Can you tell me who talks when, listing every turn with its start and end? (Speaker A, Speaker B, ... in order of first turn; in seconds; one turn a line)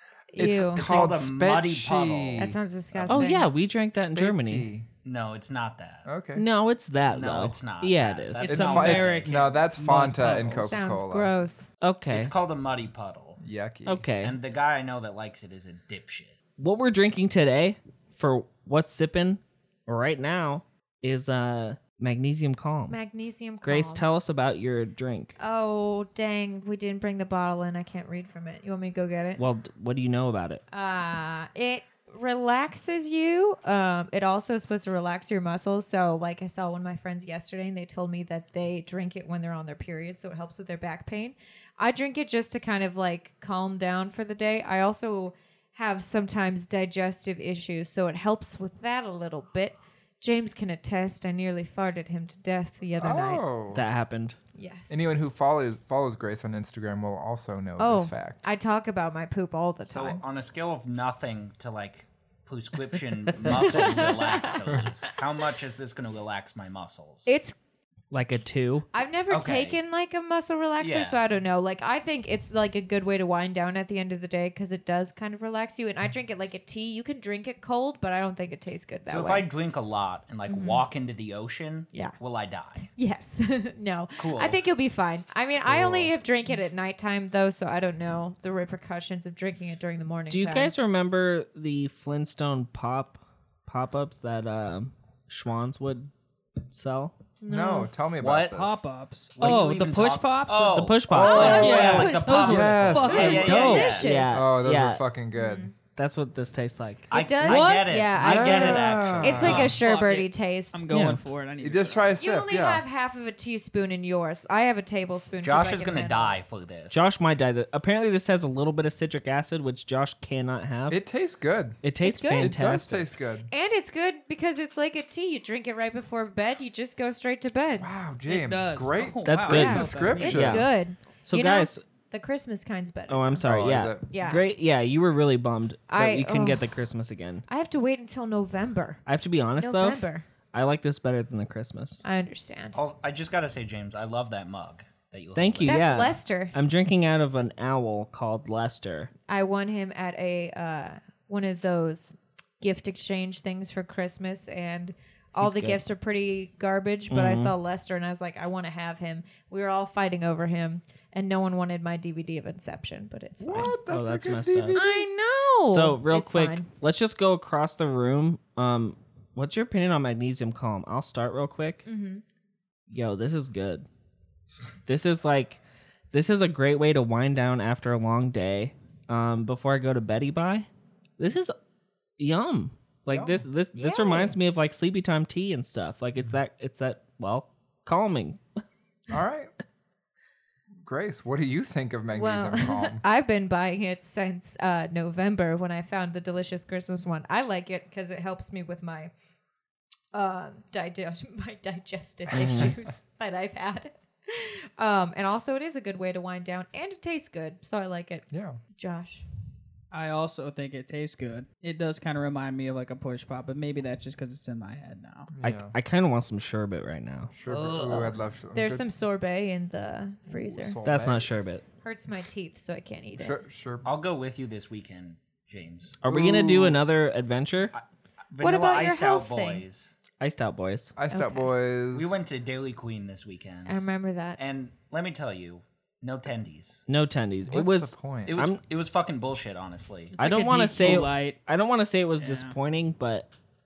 Speaker A: 0.3-0.9
Speaker B: 0.3-2.6
Speaker C: 0.4-3.1
Speaker A: 2.4-3.5
Speaker D: 3.1-4.7
Speaker B: 4.1-4.9
Speaker C: 5.0-6.1
Speaker B: 6.0-6.4
Speaker D: 6.3-8.5
Speaker C: 7.1-9.5
Speaker E: 8.4-10.8
Speaker B: 8.5-11.3
Speaker A: 10.5-11.7
Speaker D: 11.8-12.3
Speaker C: 12.1-13.4
Speaker B: 13.4-14.0
Speaker D: 13.8-14.3
Speaker C: 14.2-16.4
Speaker D: 16.6-23.0
Speaker A: 22.9-24.0
Speaker D: 23.6-25.3
Speaker A: 25.4-29.4
Speaker D: 29.4-30.6
Speaker A: 30.7-53.4
Speaker B: 53.0-53.8
Speaker D: 53.7-54.4
Speaker A: 54.5-55.0
Speaker B: 54.9-58.4
Speaker A: 57.8-60.2
Speaker C: 59.9-67.3
Speaker A: 63.5-64.6
Speaker B: 64.7-64.9
Speaker A: 67.2-67.5
Speaker D: 68.1-68.9
Speaker A: 68.9-79.5
Speaker C: 69.3-69.8
Speaker C: 70.8-71.2
Speaker C: 79.1-82.9
Speaker A: 80.5-80.8
Speaker A: 82.9-90.7
Speaker C: 84.2-84.6
Speaker B: 85.7-86.1
Speaker D: 90.3-96.1
Speaker D: 96.7-97.1
Speaker A: 97.4-97.9
Speaker B: 97.5-98.8
Speaker C: 98.2-98.5
Speaker E: 98.5-104.0
Speaker C: 99.4-104.1
Speaker D: 100.7-101.7
Speaker A: 101.1-104.4
Speaker B: 101.1-103.7
Speaker D: 103.9-105.0
Speaker B: 104.3-105.7
Speaker A: 105.3-105.7
Speaker D: 105.9-107.1
Speaker C: 107.1-109.8
Speaker A: 107.1-110.9
Speaker E: 107.4-108.1
Speaker B: 108.2-109.8
Speaker E: 109.3-112.2
Speaker D: 110.9-111.2
Speaker B: 111.6-112.8
Speaker A: 112.2-116.4
Speaker C: 115.4-117.1
Speaker D: 116.9-121.0
Speaker B: 120.9-121.8
Speaker D: 121.8-123.1
Speaker A: 122.0-122.5
Speaker B: 122.3-123.5
Speaker A: 123.5-127.9
Speaker B: 127.8-130.7
Speaker E: 128.3-130.4
Speaker D: 129.2-130.7
Speaker A: 129.5-133.4
Speaker D: 131.2-131.8
Speaker D: 133.1-137.4
Speaker B: 133.4-134.0
Speaker A: 134.1-134.4
Speaker A: 135.9-136.7
Speaker A: 137.5-139.0
Speaker D: 139.1-142.0
Speaker A: 139.6-140.2
Speaker A: 142.0-142.8
Speaker C: 142.7-146.0
Speaker D: 145.3-149.1
Speaker A: 145.7-146.5
Speaker A: 149.3-163.7
Speaker D: 155.4-155.8
Speaker D: 157.1-157.5
Speaker B: 163.4-165.1
Speaker D: 163.5-164.8
Speaker A: 164.7-166.6
Speaker D: 165.7-171.9
Speaker A: 171.8-172.2
Speaker D: 172.9-173.8
Speaker D: 174.8-175.6
Speaker D: 176.1-180.7
Speaker D: 181.2-181.5
Speaker D: 182.2-188.4
Speaker B: 183.1-183.4
Speaker A: 183.7-184.3
Speaker B: 189.1-189.5
Speaker B: 190.8-193.0
Speaker A: 192.1-199.1
Speaker A: 200.1-209.2
Speaker D: 202.3-202.7
Speaker B: 202.3-202.7
Speaker B: 208.3-208.6
Speaker E: 209.9-215.3
Speaker B: 215.3-215.7
Speaker D: 215.4-217.3
Speaker B: 217.3-218.8
Speaker E: 217.5-218.2
Speaker A: 218.5-220.8
Speaker B: 220.3-221.2
Speaker D: 220.8-221.6
Speaker A: 221.8-223.4
Speaker B: 223.2-223.9
Speaker C: 223.8-226.0
Speaker D: 226.0-227.7
Speaker B: 226.0-226.8
Speaker C: 227.7-229.9
Speaker A: 228.4-229.6
Speaker D: 230.2-230.9
Speaker B: 231.0-232.2
Speaker A: 231.1-231.5
Speaker C: 231.9-233.8
Speaker A: 233.7-234.4
Speaker C: 234.4-236.8
Speaker D: 236.9-238.6
Speaker B: 237.5-238.4
Speaker C: 238.3-240.2
Speaker E: 240.1-241.4
Speaker D: 240.2-243.3
Speaker E: 242.2-242.5